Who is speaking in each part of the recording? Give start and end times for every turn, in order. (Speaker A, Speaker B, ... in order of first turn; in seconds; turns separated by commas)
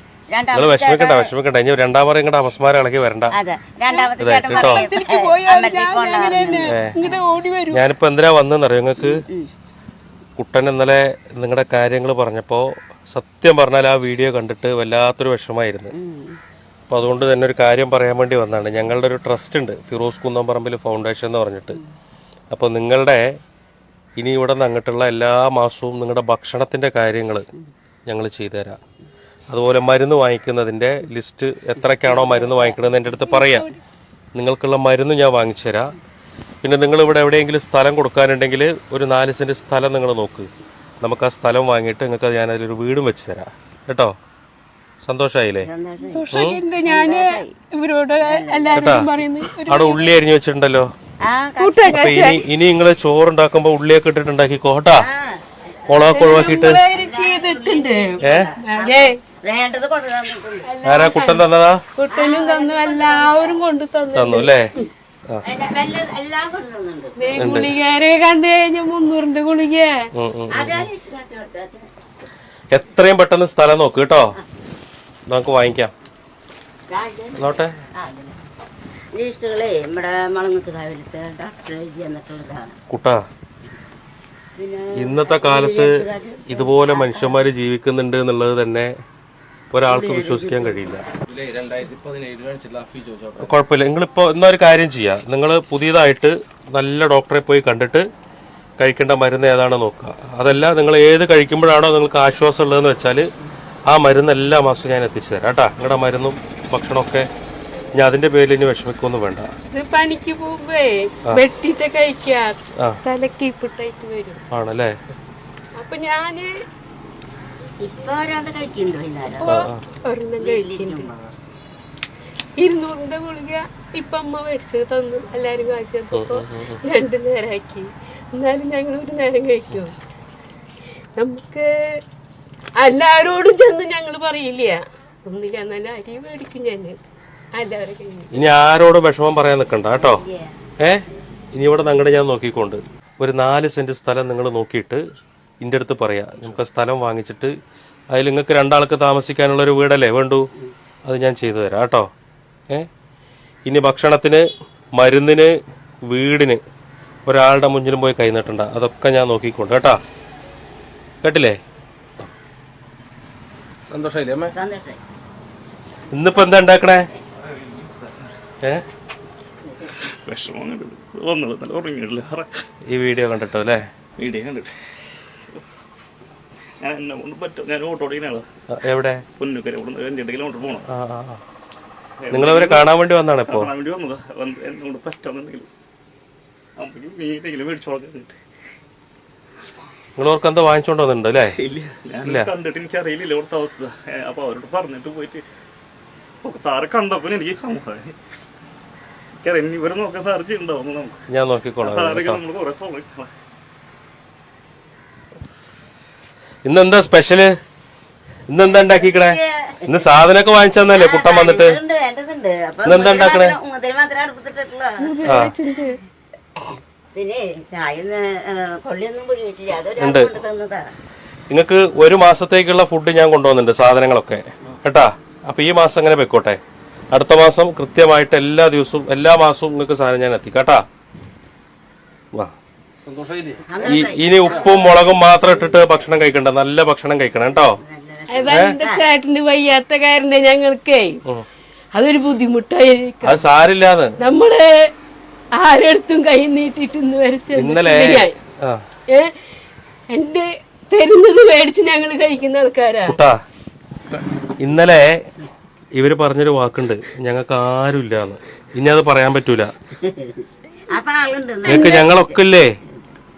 Speaker A: 0.3-1.3, Speaker B: 0.5-3.3, Speaker A: 3.4-7.2, Speaker B: 4.2-4.8, Speaker C: 5.7-7.8, Speaker B: 6.6-7.0, Speaker B: 7.7-9.2, Speaker A: 9.1-9.5, Speaker B: 10.4-15.9, Speaker A: 16.1-16.4, Speaker B: 16.9-21.8, Speaker B: 22.5-23.4, Speaker B: 24.2-27.5, Speaker B: 28.1-28.8, Speaker B: 29.5-33.7, Speaker B: 34.3-35.9, Speaker B: 36.6-40.5, Speaker B: 41.0-44.1, Speaker B: 45.0-45.7, Speaker A: 45.6-47.5, Speaker C: 46.1-50.0, Speaker B: 46.3-46.6, Speaker A: 48.2-48.9, Speaker B: 48.7-49.1, Speaker B: 49.6-50.9, Speaker A: 51.2-52.1, Speaker C: 51.6-52.4, Speaker B: 51.9-55.1, Speaker A: 55.0-60.7, Speaker B: 55.9-56.8, Speaker C: 56.1-59.1, Speaker B: 58.2-58.5, Speaker C: 60.7-61.4, Speaker B: 60.8-61.8, Speaker C: 62.0-64.5, Speaker A: 62.1-63.6, Speaker B: 64.1-64.7, Speaker A: 65.5-67.4, Speaker C: 67.2-69.9, Speaker B: 67.3-67.7, Speaker B: 70.1-70.9, Speaker A: 70.5-71.8, Speaker B: 72.7-74.3, Speaker B: 75.3-75.9, Speaker A: 76.9-78.4, Speaker B: 77.4-77.7, Speaker A: 79.1-82.7, Speaker B: 82.9-83.2, Speaker A: 84.6-87.4, Speaker B: 85.0-88.9, Speaker B: 89.7-91.0, Speaker A: 89.9-90.8, Speaker D: 91.3-93.5, Speaker B: 93.4-98.0, Speaker B: 98.8-103.3, Speaker B: 103.9-107.3, Speaker B: 108.0-109.5, Speaker C: 109.7-114.4, Speaker B: 114.5-114.9, Speaker C: 115.8-116.5, Speaker A: 117.8-119.6, Speaker C: 119.3-121.0, Speaker B: 119.4-119.8, Speaker A: 120.4-121.3, Speaker C: 122.6-129.9, Speaker B: 126.1-126.8, Speaker C: 131.2-132.0, Speaker C: 132.8-137.0, Speaker C: 137.6-138.3, Speaker B: 138.3-140.2, Speaker A: 139.9-140.5, Speaker B: 140.8-145.0, Speaker B: 145.6-147.5, Speaker B: 148.1-150.4, Speaker B: 151.0-152.1, Speaker B: 153.7-154.4, Speaker B: 155.0-155.5, Speaker B: 156.1-156.6, Speaker B: 157.2-160.0, Speaker B: 161.2-161.6, Speaker D: 163.9-164.5, Speaker A: 164.5-165.0, Speaker B: 166.1-167.1, Speaker E: 170.0-172.6, Speaker B: 172.9-173.8, Speaker E: 174.2-174.7, Speaker E: 176.8-178.5, Speaker B: 178.7-179.2, Speaker E: 179.3-180.8, Speaker B: 180.9-181.4, Speaker E: 182.2-185.7, Speaker B: 182.3-183.7, Speaker E: 186.8-188.4, Speaker B: 190.2-191.6, Speaker E: 191.6-195.5, Speaker B: 192.2-192.5, Speaker E: 196.4-198.2, Speaker E: 199.4-201.2, Speaker B: 201.3-202.4, Speaker E: 201.8-203.3, Speaker B: 206.6-207.5, Speaker B: 208.5-211.8, Speaker A: 208.6-210.1, Speaker A: 210.9-215.2, Speaker B: 212.8-213.6, Speaker C: 215.0-216.0, Speaker B: 215.2-215.5, Speaker A: 217.1-220.9, Speaker B: 220.0-220.3, Speaker B: 221.5-226.6, Speaker B: 227.1-230.8, Speaker D: 233.1-234.7, Speaker A: 233.7-234.7, Speaker B: 233.8-237.8, Speaker A: 237.7-239.1, Speaker C: 238.3-241.2, Speaker B: 238.5-238.8, Speaker C: 241.9-243.5, Speaker B: 243.2-244.1, Speaker C: 244.2-244.6, Speaker C: 245.6-248.3, Speaker B: 247.5-248.8, Speaker C: 250.1-253.2, Speaker B: 253.0-253.4, Speaker B: 254.6-255.1, Speaker B: 255.9-259.7, Speaker A: 260.0-260.4, Speaker A: 260.9-262.4, Speaker B: 261.6-262.7